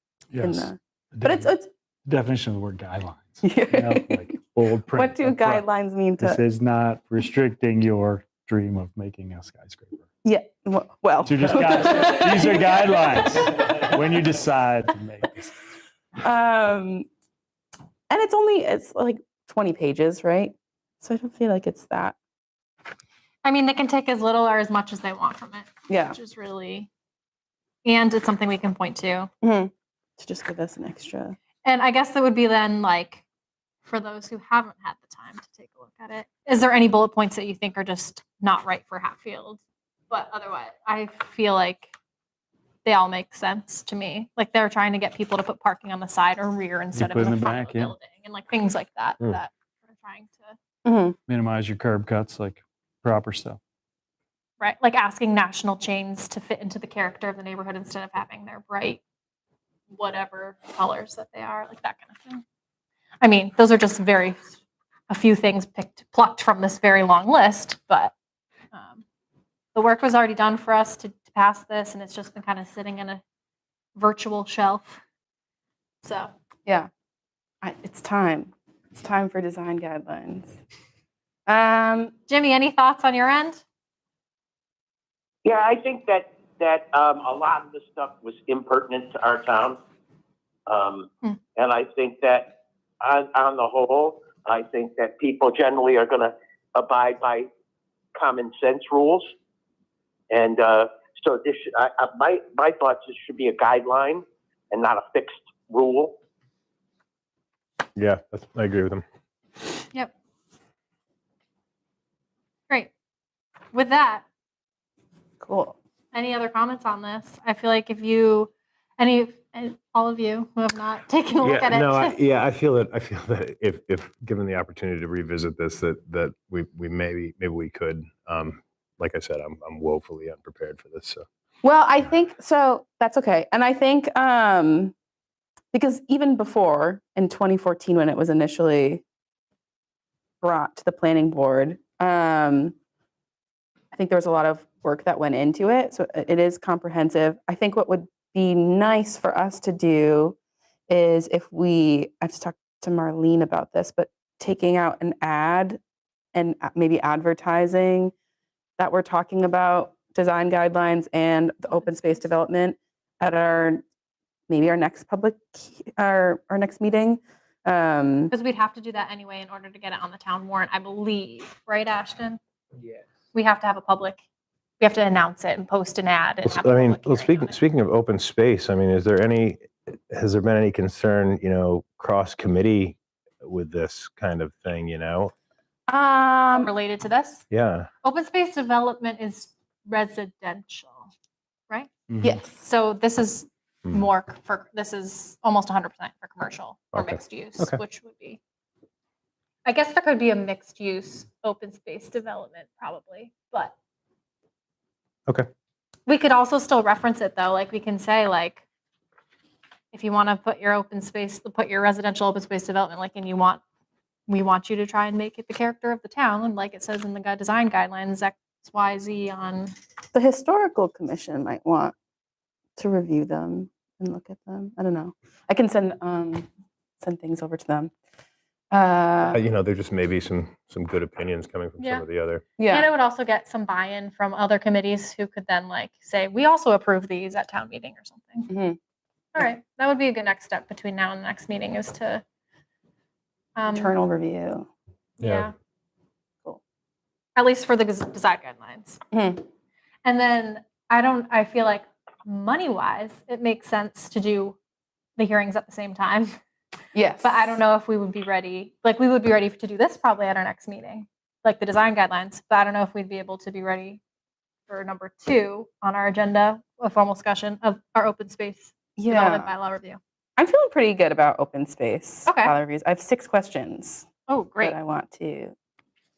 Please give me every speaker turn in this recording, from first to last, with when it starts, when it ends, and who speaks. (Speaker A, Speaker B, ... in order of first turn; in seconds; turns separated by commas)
Speaker A: 0.3-1.5, Speaker B: 0.4-1.7, Speaker A: 2.0-10.1, Speaker B: 3.4-4.2, Speaker B: 4.9-6.4, Speaker B: 10.2-12.6, Speaker A: 11.2-15.5, Speaker B: 16.2-17.1, Speaker B: 18.1-22.1, Speaker C: 23.4-26.9, Speaker B: 25.9-26.2, Speaker C: 27.8-29.3, Speaker B: 29.4-31.4, Speaker C: 31.6-33.2, Speaker C: 33.8-41.9, Speaker C: 42.8-50.5, Speaker A: 46.9-47.9, Speaker B: 50.8-51.1, Speaker A: 51.3-53.6, Speaker C: 54.6-59.0, Speaker C: 59.9-62.4, Speaker C: 63.2-64.5, Speaker C: 65.1-68.1, Speaker C: 68.7-69.0, Speaker C: 69.7-73.2, Speaker C: 74.0-75.0, Speaker C: 76.0-76.3, Speaker B: 77.6-80.5, Speaker B: 81.5-82.1, Speaker C: 82.3-83.6, Speaker D: 85.4-89.8, Speaker D: 90.7-97.5, Speaker D: 98.1-99.3, Speaker D: 100.3-106.2, Speaker E: 108.0-109.0, Speaker C: 113.7-114.2, Speaker B: 115.4-115.8, Speaker C: 116.1-122.2, Speaker E: 121.4-131.2, Speaker B: 131.6-134.9, Speaker B: 135.7-139.0, Speaker B: 140.4-142.7, Speaker B: 143.9-150.4, Speaker B: 150.9-155.8, Speaker B: 156.3-158.1, Speaker B: 158.8-163.8, Speaker C: 161.7-162.2, Speaker B: 164.5-168.3, Speaker C: 168.3-172.4, Speaker C: 173.3-174.2, Speaker C: 174.8-177.6, Speaker E: 176.4-185.3, Speaker B: 185.9-186.7, Speaker C: 186.5-187.4, Speaker E: 187.5-187.9, Speaker C: 188.0-191.1, Speaker A: 192.1-192.4, Speaker B: 192.2-192.5, Speaker C: 192.5-198.4, Speaker E: 196.9-197.8, Speaker C: 199.6-203.7, Speaker C: 206.1-208.6, Speaker C: 209.9-213.6, Speaker C: 214.3-219.7, Speaker B: 220.1-221.9, Speaker B: 222.8-226.5, Speaker B: 227.0-227.9, Speaker B: 228.7-229.4, Speaker E: 229.3-232.4, Speaker C: 231.8-232.1, Speaker B: 232.6-232.8, Speaker C: 232.7-238.5, Speaker B: 238.5-238.8, Speaker C: 239.3-242.2, Speaker C: 243.6-244.0, Speaker B: 243.7-244.7, Speaker C: 245.2-245.5, Speaker E: 245.2-245.5, Speaker C: 247.3-249.0, Speaker B: 249.1-249.4, Speaker C: 250.0-254.6, Speaker C: 255.2-256.4, Speaker B: 256.9-257.5, Speaker C: 257.2-264.0, Speaker C: 264.7-270.0, Speaker B: 269.0-269.5, Speaker B: 270.4-274.1, Speaker C: 272.2-272.6, Speaker C: 274.3-274.8, Speaker B: 274.6-275.5